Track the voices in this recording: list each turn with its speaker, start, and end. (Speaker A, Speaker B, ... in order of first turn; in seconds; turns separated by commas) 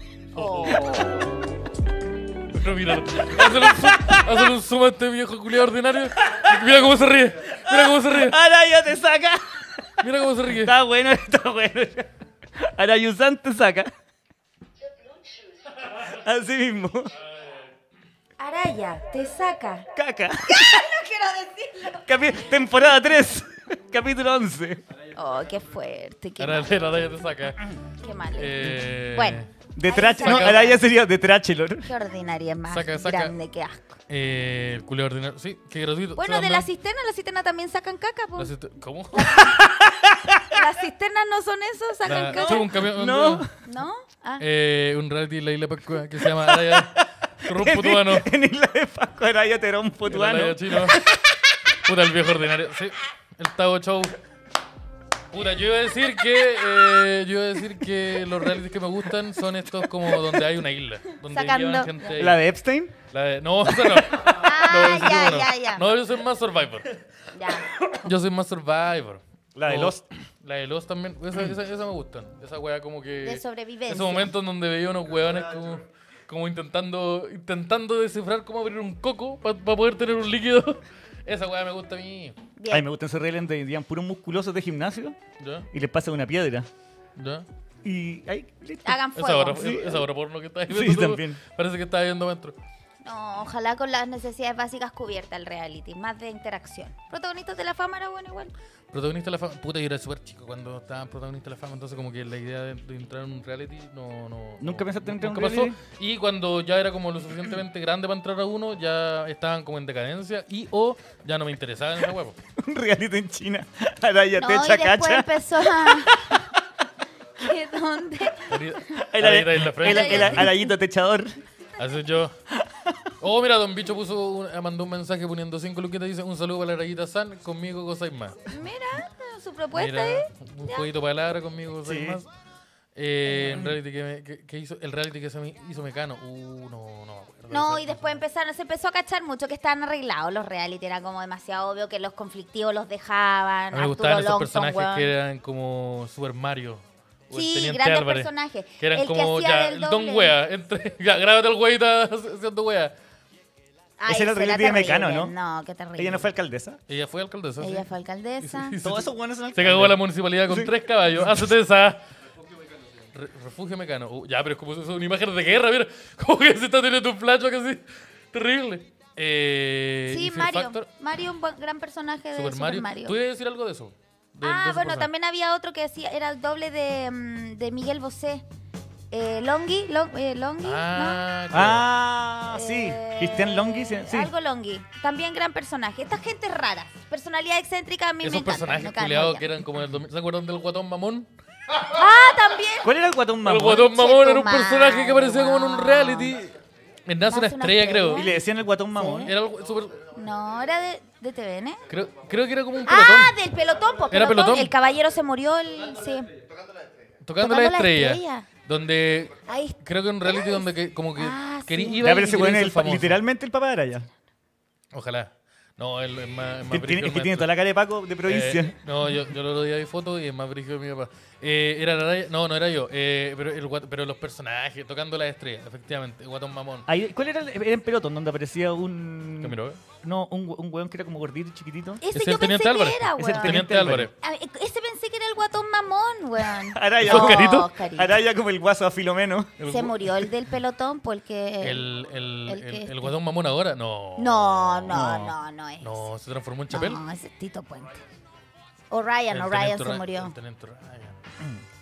Speaker A: 0.4-0.9, Speaker B: 0.4-1.2, Speaker A: 2.5-8.4, Speaker C: 3.1-4.5, Speaker C: 7.5-9.9, Speaker A: 10.0-10.8, Speaker C: 10.5-13.9, Speaker C: 16.0-17.1, Speaker B: 18.4-19.9, Speaker C: 19.9-20.9, Speaker B: 20.5-22.1, Speaker C: 22.1-24.8, Speaker B: 25.1-26.7, Speaker A: 26.4-27.7, Speaker B: 28.0-30.8, Speaker A: 28.4-29.5, Speaker C: 29.8-31.9, Speaker A: 30.2-30.7, Speaker B: 31.9-34.0, Speaker A: 32.7-33.4, Speaker A: 34.1-36.7, Speaker B: 36.2-38.5, Speaker A: 38.4-39.5, Speaker B: 39.1-39.7, Speaker C: 39.6-40.6, Speaker B: 40.5-42.7, Speaker A: 42.1-43.5, Speaker C: 42.3-43.5, Speaker B: 43.6-44.4, Speaker A: 44.4-48.3, Speaker C: 46.2-51.2, Speaker A: 50.1-51.1, Speaker A: 51.8-54.2, Speaker A: 55.3-62.5, Speaker B: 61.3-62.1, Speaker C: 62.2-63.0, Speaker A: 63.1-66.9, Speaker B: 64.2-65.9, Speaker B: 67.3-67.7, Speaker A: 67.8-82.4, Speaker C: 69.6-70.0, Speaker B: 73.2-74.3, Speaker B: 82.6-82.9, Speaker C: 82.7-85.2, Speaker A: 85.4-85.7, Speaker C: 85.7-86.7, Speaker A: 87.2-87.5, Speaker C: 87.8-90.1, Speaker B: 88.8-89.7, Speaker A: 89.2-92.6, Speaker C: 90.7-91.4, Speaker B: 93.0-98.5, Speaker A: 98.9-112.4, Speaker C: 104.6-105.8, Speaker C: 112.6-116.5, Speaker B: 114.4-116.4, Speaker B: 117.4-119.0, Speaker A: 118.5-120.5, Speaker C: 119.0-121.3, Speaker B: 119.8-120.7, Speaker A: 121.8-122.3, Speaker C: 122.6-122.9, Speaker A: 123.2-128.5, Speaker B: 128.5-130.9, Speaker A: 129.8-132.3, Speaker C: 131.8-132.2, Speaker A: 133.0-138.2, Speaker C: 133.4-133.7, Speaker B: 137.5-145.1, Speaker A: 143.7-152.9, Speaker B: 147.3-150.4, Speaker B: 154.0-156.3, Speaker C: 154.1-155.3, Speaker C: 156.0-156.8, Speaker A: 156.9-157.9, Speaker B: 157.6-158.8, Speaker A: 158.4-162.0, Speaker C: 158.8-160.7, Speaker A: 163.1-170.9, Speaker B: 170.1-173.2, Speaker A: 172.3-175.1, Speaker B: 174.4-178.4, Speaker B: 179.1-181.2, Speaker A: 180.6-181.9, Speaker C: 181.5-184.3, Speaker B: 182.5-189.5, Speaker A: 188.2-191.3, Speaker B: 191.9-192.9, Speaker C: 192.8-193.9, Speaker A: 193.4-196.6, Speaker B: 193.9-196.3, Speaker A: 197.1-198.3, Speaker B: 197.3-198.4, Speaker C: 198.1-199.3, Speaker B: 199.0-199.3, Speaker A: 199.2-200.0, Speaker B: 200.1-201.8, Speaker A: 201.9-203.3, Speaker B: 202.8-206.3, Speaker A: 204.1-204.7, Speaker A: 207.2-213.2, Speaker B: 207.4-208.5, Speaker B: 209.5-212.0, Speaker C: 212.0-214.1, Speaker A: 214.9-217.5, Speaker C: 216.7-218.8, Speaker A: 218.3-226.9, Speaker C: 226.9-232.0, Speaker A: 229.4-229.8, Speaker B: 232.0-233.7, Speaker A: 232.1-234.1, Speaker C: 233.2-234.1, Speaker B: 234.2-238.2, Speaker C: 236.7-239.7, Speaker A: 237.0-237.7, Speaker A: 239.6-240.2, Speaker B: 239.7-241.8, Speaker A: 241.6-247.0, Speaker B: 242.5-243.1, Speaker B: 244.2-246.1, Speaker B: 246.7-248.0, Speaker B: 248.9-250.3, Speaker A: 249.3-251.2